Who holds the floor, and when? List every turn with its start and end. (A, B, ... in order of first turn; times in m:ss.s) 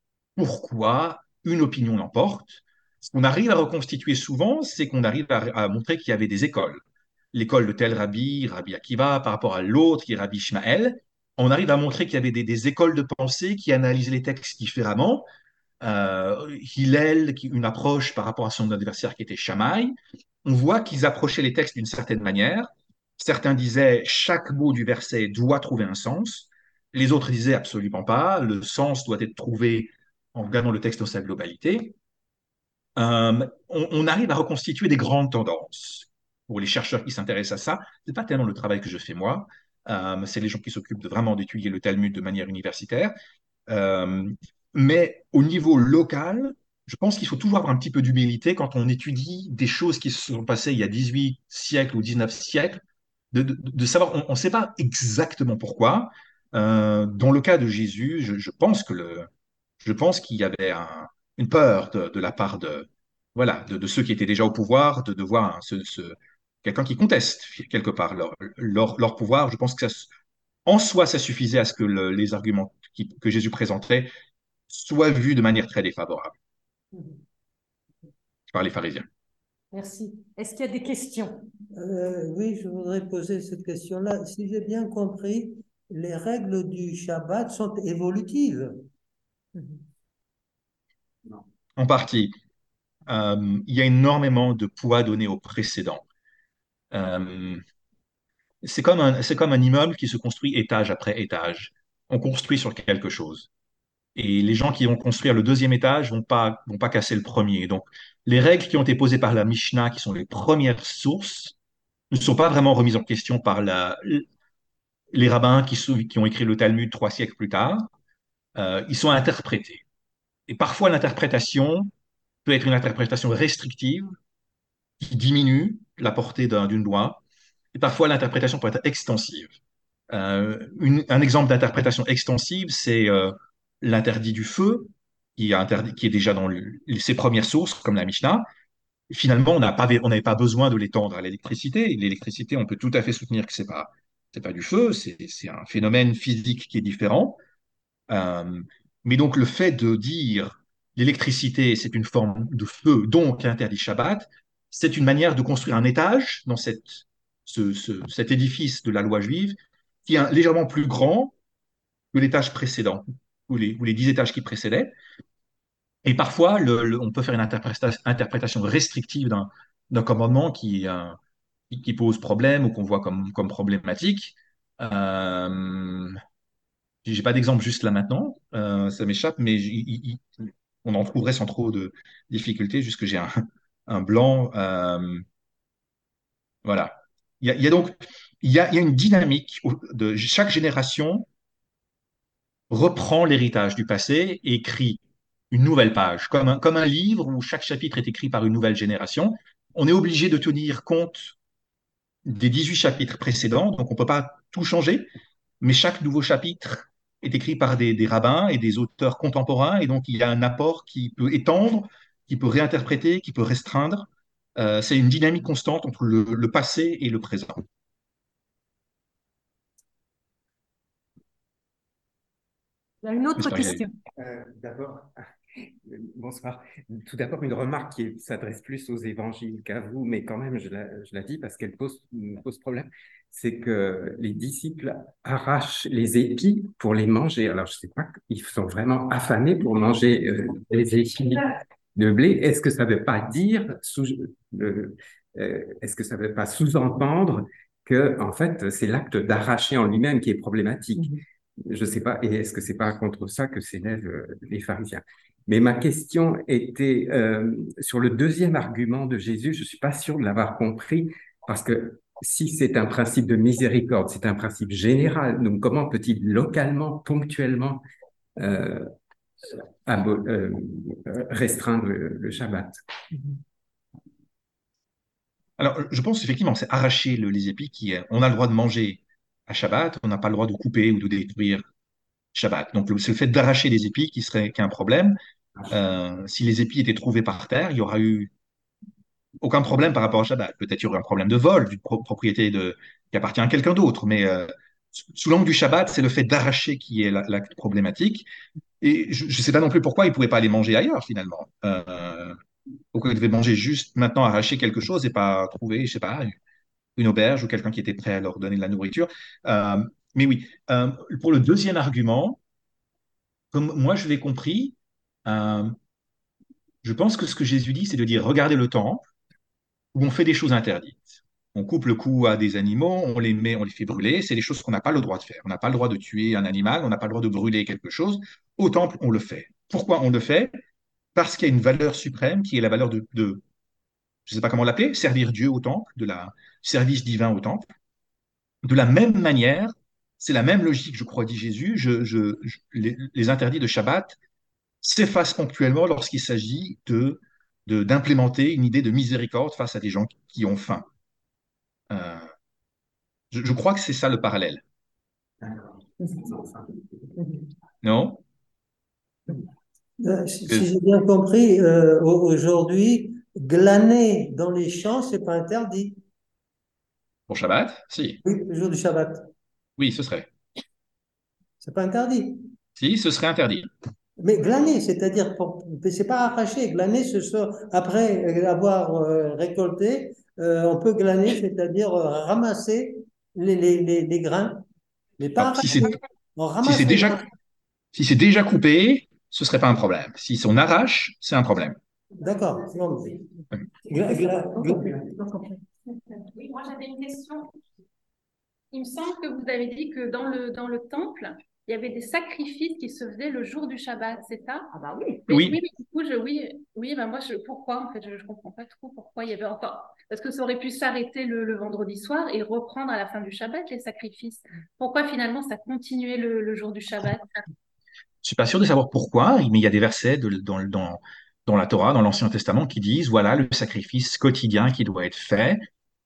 0:00.4-0:15.2 A
0:15.8-0:31.9 A
0:33.0-0:43.1 A
0:43.7-0:52.8 A
0:53.3-0:59.3 A
0:59.8-1:10.1 A
1:10.6-1:14.1 A
1:14.7-1:16.3 A
1:18.5-1:19.0 A
1:19.7-1:21.4 B
1:21.7-1:28.8 C
1:31.8-1:32.3 A
1:33.1-1:36.0 A
1:36.9-1:37.6 A
1:38.6-1:43.5 A
1:44.2-1:51.6 A
1:52.1-1:54.2 A
1:55.1-1:57.9 A
1:58.5-1:59.8 A
2:00.5-2:01.9 A
2:02.4-2:04.2 A
2:05.0-2:07.2 A
2:07.7-2:09.5 A
2:10.1-2:18.4 A
2:19.1-2:27.4 A
2:28.1-2:41.3 A
2:42.1-2:44.9 A
2:46.0-2:51.2 A
2:51.7-2:56.2 A
2:57.0-3:03.3 A
3:03.9-3:05.2 A
3:06.6-3:11.3 A
3:12.7-3:21.4 A
3:22.2-3:25.1 A
3:25.6-3:37.6 A
3:43.0-3:43.9 B
3:43.4-3:43.8 A
3:44.2-3:45.1 D
3:45.8-4:27.8 D
4:28.4-4:28.9 D
4:29.4-4:32.8 D
4:35.6-4:41.6 A
4:42.3-4:45.2 A
4:45.7-4:48.3 A
4:49.4-4:58.3 A
4:58.8-5:02.4 A
5:02.9-5:06.4 A
5:07.0-5:12.4 A
5:13.5-5:15.7 A
5:16.8-5:19.0 A
5:19.9-5:30.5 A
5:31.1-5:33.4 A
5:34.2-5:37.7 A
5:38.6-5:44.2 A
5:44.8-5:50.9 A
5:51.9-5:52.3 A
5:53.3-5:54.6 A
5:57.8-5:58.2 A
6:00.0-6:06.0 C
6:07.3-6:08.2 A
6:08.2-6:09.3 C
6:09.8-6:10.3 A
6:11.6-6:12.5 C
6:12.8-6:13.7 A
6:14.2-6:24.6 C
6:25.2-6:27.2 C
6:25.4-6:26.0 A
6:26.6-6:27.2 A
6:27.9-6:31.8 A
6:32.2-6:33.2 C
6:33.9-6:35.1 C
6:35.2-6:35.5 B
6:36.2-6:37.5 E
6:38.7-6:57.4 E
6:44.8-6:45.2 B
6:45.3-6:45.6 A
6:58.2-7:05.6 A